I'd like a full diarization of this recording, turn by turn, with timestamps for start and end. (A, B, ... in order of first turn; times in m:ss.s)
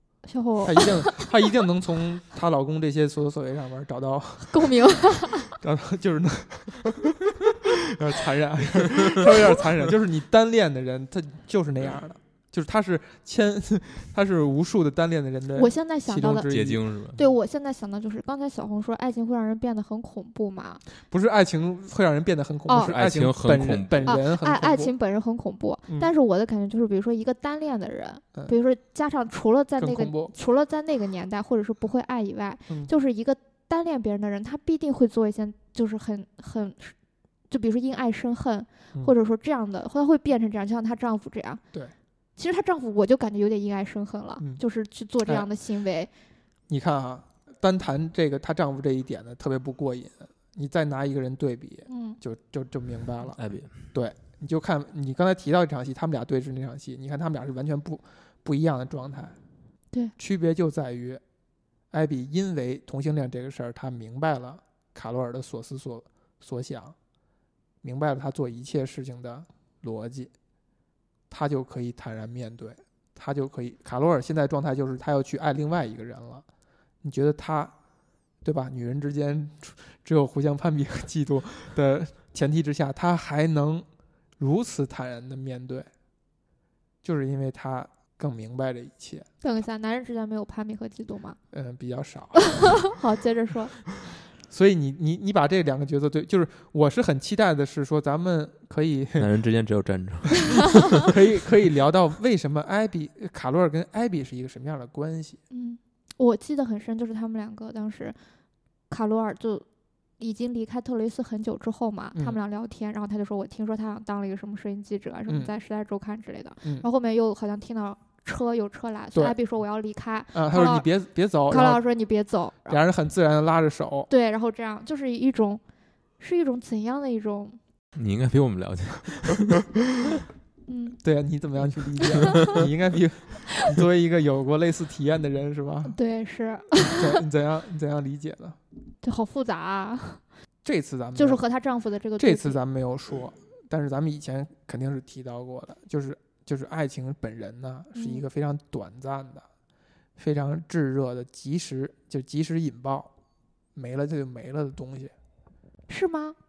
0:00.2-0:01.3 A
0:00.6-0:16.8 B
0:04.5-0:05.6 A
0:15.6-0:16.6 A
0:16.4-0:17.3 C
0:17.1-0:20.8 A
0:21.1-0:24.9 B
0:22.7-0:23.0 A
0:22.8-0:24.1 C
0:24.0-0:37.0 A
0:29.8-0:30.3 B
0:37.5-0:41.6 A
0:42.4-0:46.1 A
0:46.7-0:53.4 B
0:51.9-0:52.2 A
0:53.3-0:53.8 C
0:53.9-0:59.4 B
1:00.2-1:01.2 B
1:01.9-1:07.0 B
1:07.8-1:10.3 B
1:11.3-1:16.4 B
1:17.0-1:17.7 B
1:18.4-1:23.9 B
1:24.4-1:25.9 B
1:27.0-1:29.3 B
1:29.4-1:31.4 A
1:31.5-1:32.8 B
1:32.5-1:33.9 A
1:34.5-1:39.3 B
1:39.2-1:41.0 C
1:41.0-1:45.4 B
1:45.5-1:48.2 A
1:48.9-1:49.6 A
1:50.2-2:00.9 A
2:00.3-2:01.8 B
2:01.5-2:02.8 A
2:02.7-2:04.1 B
2:04.1-2:05.6 A
2:06.2-2:07.6 A
2:08.0-2:09.7 C
2:10.7-2:11.0 A
2:11.0-2:16.0 B
2:12.2-2:12.5 A
2:12.2-2:12.6 C
2:15.9-2:17.2 A
2:16.8-2:18.6 B
2:19.0-2:20.2 A
2:20.6-2:21.4 B
2:21.2-2:22.6 A
2:22.2-2:29.5 B
2:28.0-2:28.2 A
2:30.2-2:33.1 B
2:33.8-2:35.1 B
2:35.9-2:36.4 A